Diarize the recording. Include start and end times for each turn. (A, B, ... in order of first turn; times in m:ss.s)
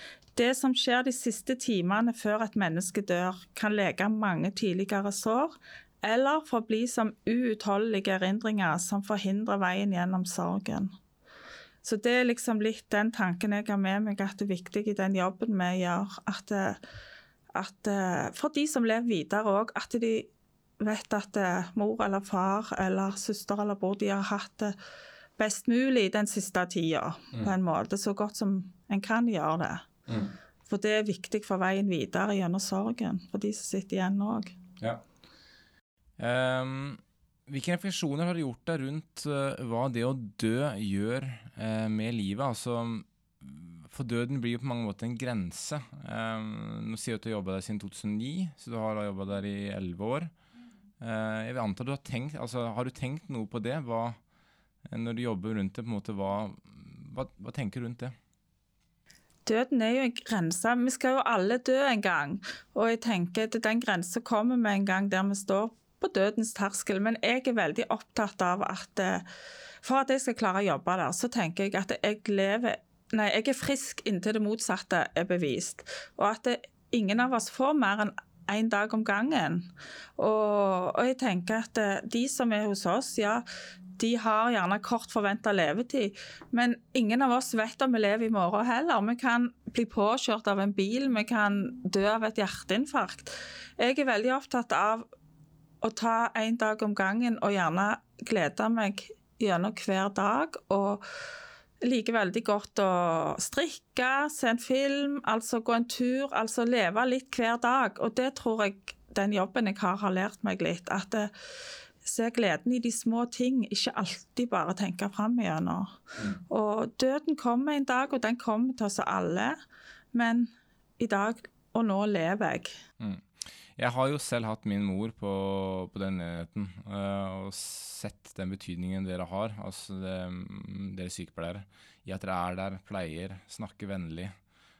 0:00.4-0:10.9 A
0:11.8-0:16.8 A
0:17.6-0:20.3 A
0:20.8-0:24.8 A
0:25.4-0:29.9 A
0:30.1-0:30.3 B
0:30.7-0:34.5 A
0:36.2-0:50.3 B
0:51.0-0:54.2 B
0:54.9-0:58.1 B
0:59.5-1:09.2 A
1:09.8-1:23.4 A
1:24.0-1:35.1 A
1:35.8-1:41.0 A
1:41.8-1:51.3 A
1:52.0-1:59.6 A
2:00.1-2:02.8 A
2:03.0-2:14.3 B